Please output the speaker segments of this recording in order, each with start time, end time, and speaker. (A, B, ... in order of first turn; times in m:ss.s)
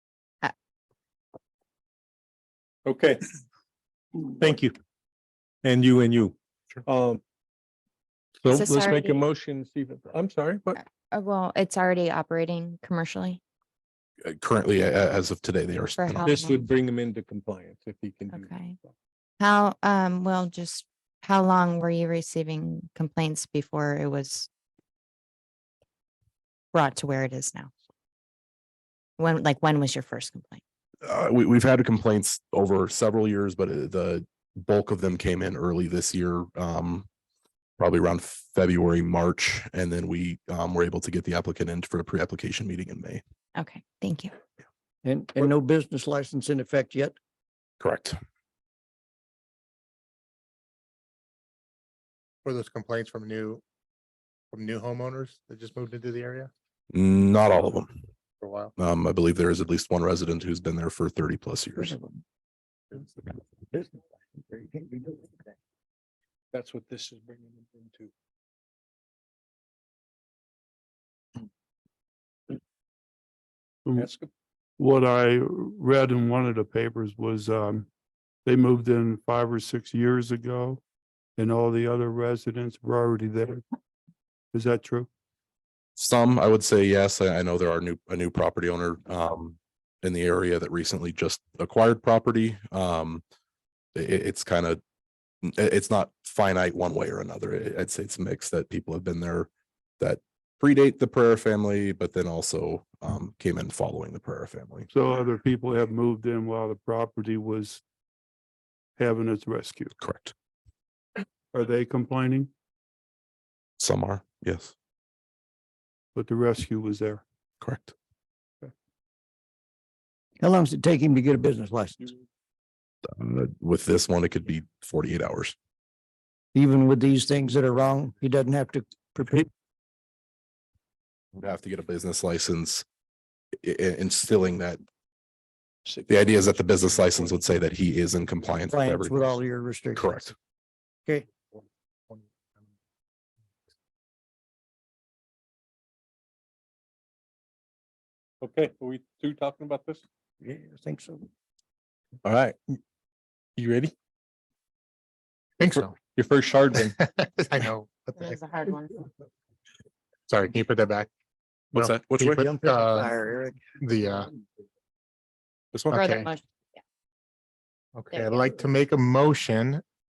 0:02.8-0:03.2 A
0:04.4-0:04.7 B
0:05.6-0:06.3 B
0:05.6-0:06.0 A
0:06.8-0:07.2 A
0:08.4-0:10.7 A
0:08.6-0:09.2 C
0:10.7-0:13.4 C
0:14.2-0:16.3 D
0:16.0-0:16.6 C
0:16.3-0:18.7 A
0:18.3-0:18.8 C
0:19.4-0:24.5 C
0:26.7-0:27.7 C
0:29.2-0:30.6 C
0:31.0-0:37.1 D
0:37.8-0:43.2 D
0:43.6-0:44.3 C
0:45.0-0:47.2 E
0:47.8-0:48.2 D
0:52.4-0:53.6 B
0:54.5-0:56.5 B
0:56.9-0:57.9 D
0:58.4-0:58.7 B
0:58.8-1:01.9 D
1:01.8-1:02.2 E
1:03.7-1:05.5 E
1:06.5-1:08.1 A
1:13.8-1:14.1 F
1:14.0-1:14.3 A
1:14.8-1:17.9 F
1:18.4-1:20.8 F
1:21.4-1:23.6 F
1:24.5-1:25.1 F
1:26.0-1:33.2 D
1:33.9-1:34.8 D
1:35.4-1:44.9 D
1:44.9-1:47.8 F
1:49.0-1:49.9 F
1:50.0-1:50.3 D
1:51.5-1:52.5 F
1:53.8-1:54.7 D
1:56.1-1:57.2 F
1:57.6-1:57.9 D
2:00.4-2:02.1 E
2:03.1-2:05.5 D
2:06.5-2:09.5 E
2:11.3-2:12.8 D
2:13.6-2:14.8 D
2:16.1-2:19.3 D
2:18.7-2:20.0 E
2:20.0-2:20.3 D
2:28.4-2:30.0 A
2:30.4-2:31.3 E
2:32.2-2:32.6 A
2:33.6-2:33.9 A
2:35.6-2:35.9 B
2:35.8-2:37.0 A
2:37.0-2:38.4 B
2:38.2-2:38.9 C
2:40.3-2:41.1 B
2:41.7-2:43.1 B
2:41.7-2:42.4 D
2:42.4-2:43.6 E
2:43.8-2:44.3 B
2:45.9-2:46.3 B
2:45.9-2:46.4 C
2:47.9-2:49.8 B
2:48.1-2:48.6 C